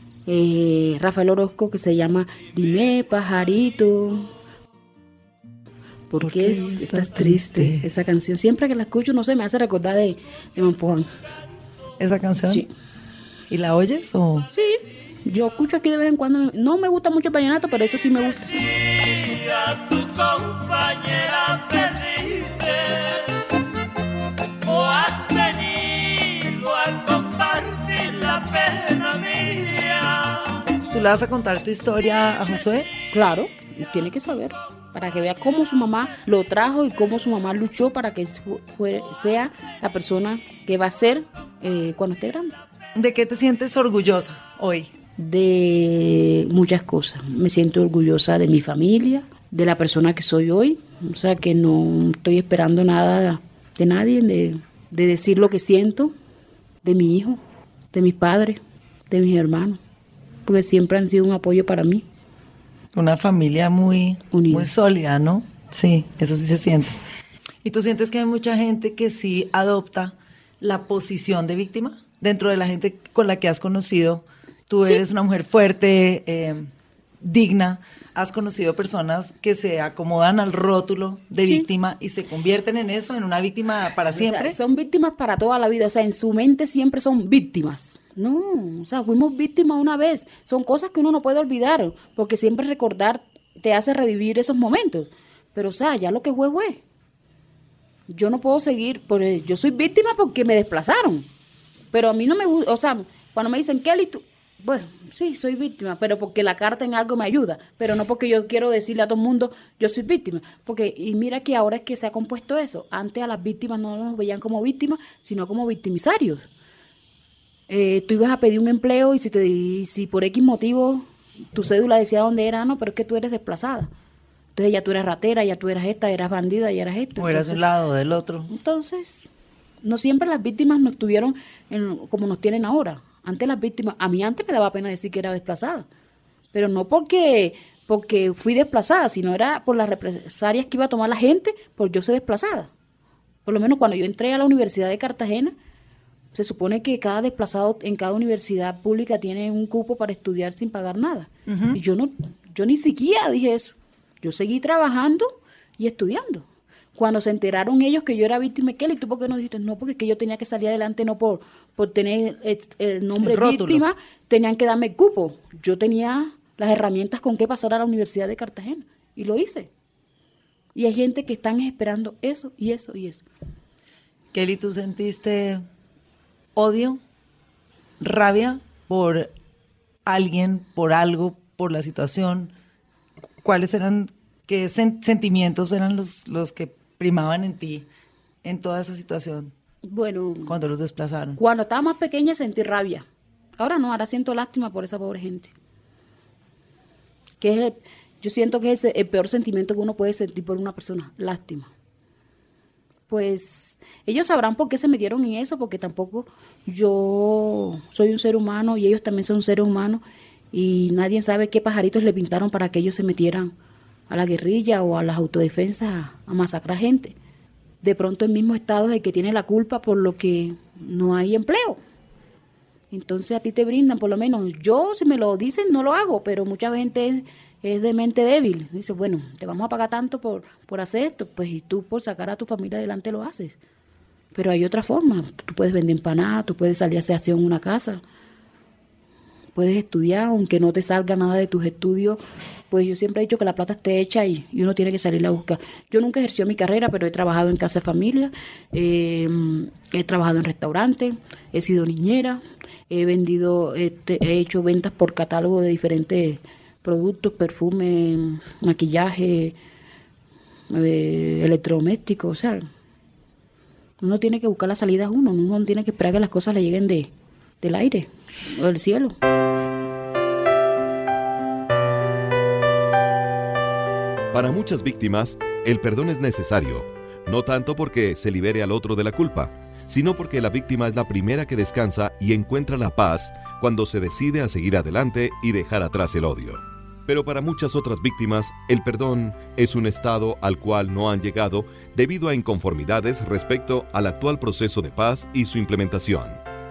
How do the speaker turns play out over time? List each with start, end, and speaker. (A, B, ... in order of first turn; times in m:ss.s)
0:00.3-0:04.3 A
0:06.1-0:11.1 A
0:06.3-0:07.8 B
0:12.0-0:12.6 B
0:13.5-0:14.5 B
0:14.5-0:19.0 A
0:19.1-0:23.4 B
0:24.6-0:32.9 B
0:33.1-0:42.6 A
0:43.0-0:44.9 B
0:45.2-0:56.1 A
0:56.8-0:57.4 A
0:57.9-0:59.8 A
1:00.5-1:02.0 A
1:02.9-1:07.0 B
1:04.3-1:04.7 A
1:07.6-1:16.7 B
1:17.2-1:24.6 B
1:24.2-1:36.8 A
1:38.1-1:41.3 A
1:41.9-1:56.4 A
1:57.7-2:03.9 A
2:04.6-2:07.6 A
2:07.2-2:08.5 B
2:08.5-2:09.3 A
2:09.8-2:15.9 A
2:16.5-2:22.7 A
2:23.4-2:25.6 A
2:26.3-2:49.7 A
2:31.5-2:31.8 B
2:43.2-2:43.8 B
2:50.8-2:53.2 A
2:54.3-2:55.6 B
2:56.6-2:57.0 B
2:58.0-2:59.3 B
3:00.0-3:02.5 B
3:03.4-3:07.9 B
3:08.4-3:09.5 B
3:09.9-3:10.5 A
3:10.5-3:11.4 B
3:11.4-3:13.0 A
3:13.6-3:15.5 A
3:17.4-3:21.7 A
3:23.1-3:33.5 A
3:34.1-3:37.2 A
3:37.8-3:41.8 A
3:42.9-3:53.6 A
3:54.3-3:58.0 A
3:59.6-4:02.2 A
4:02.7-4:19.6 A
4:20.7-4:22.7 A
4:24.0-4:27.1 A
4:27.6-4:29.2 A
4:34.3-4:56.4 C